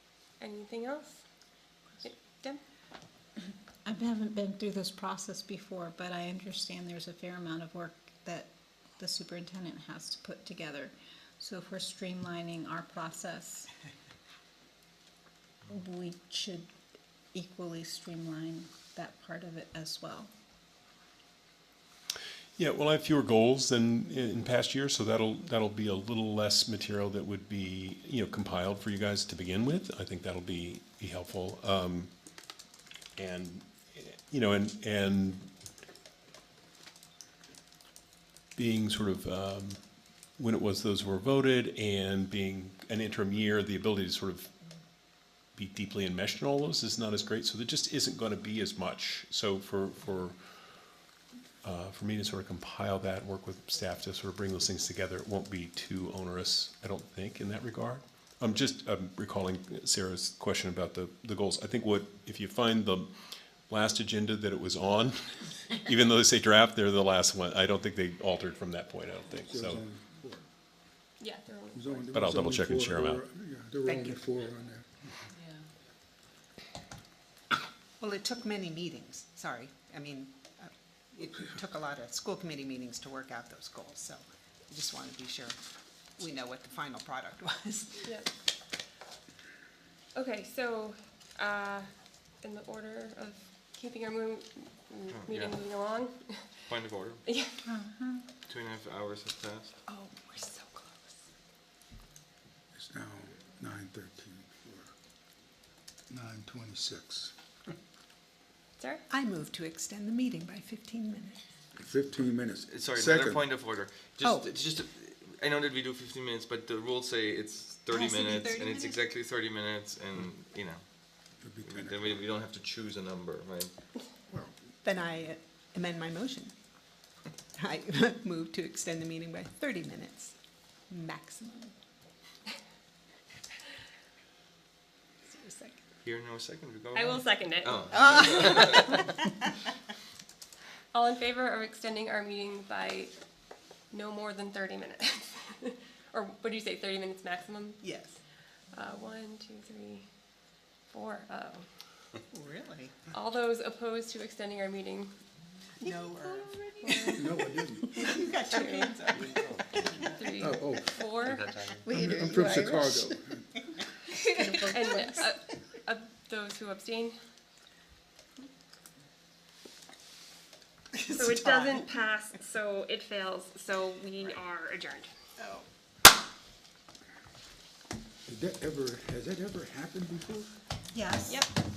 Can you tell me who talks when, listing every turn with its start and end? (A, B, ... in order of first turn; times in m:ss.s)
0:00.4-0:01.2 A
0:02.0-0:02.6 A
0:03.8-0:13.7 B
0:15.7-0:16.7 B
0:17.3-0:20.3 B
0:22.6-0:32.1 C
0:33.2-0:35.5 C
0:38.6-0:39.8 C
0:40.4-0:44.5 C
0:45.6-0:50.4 C
0:51.6-1:03.1 C
1:03.7-1:09.8 C
1:09.5-1:10.4 D
1:11.2-1:12.1 A
1:11.7-1:15.2 D
1:12.1-1:13.2 C
1:13.8-1:14.2 E
1:18.0-1:25.6 E
1:26.2-1:28.1 E
1:28.0-1:28.3 A
1:30.2-1:31.9 A
1:32.4-1:36.6 A
1:35.1-1:35.6 F
1:36.7-1:37.2 F
1:37.3-1:37.6 A
1:37.7-1:38.2 B
1:38.5-1:39.7 F
1:39.9-1:41.1 E
1:42.7-1:44.9 D
1:46.1-1:47.3 D
1:49.1-1:51.4 E
1:51.8-1:53.4 D
1:52.6-2:00.8 F
1:54.2-1:54.5 E
1:57.9-1:59.0 E
2:01.4-2:02.2 D
2:01.6-2:03.7 F
2:04.8-2:06.5 E
2:07.6-2:10.4 E
2:10.9-2:11.7 E
2:15.2-2:15.8 E
2:16.0-2:18.9 F
2:16.9-2:17.9 A
2:17.9-2:19.4 E
2:18.6-2:19.0 A
2:20.9-2:23.1 A
2:23.9-2:27.8 A
2:27.8-2:28.2 E
2:28.7-2:30.1 A
2:30.9-2:31.7 A
2:32.3-2:33.0 E
2:33.0-2:35.1 A
2:35.8-2:37.5 A
2:35.8-2:37.1 E
2:37.1-2:38.2 D
2:37.8-2:39.9 E
2:38.0-2:39.0 A
2:39.2-2:39.8 F
2:40.0-2:43.0 A
2:40.4-2:41.1 D
2:41.2-2:41.9 F
2:41.9-2:43.0 E
2:41.9-2:43.5 D
2:44.2-2:45.1 E
2:44.6-2:47.2 A
2:50.9-2:51.9 E
2:51.1-2:55.1 A
2:55.4-2:55.7 E
2:58.3-3:00.5 D
3:00.9-3:01.4 B
3:01.3-3:01.6 A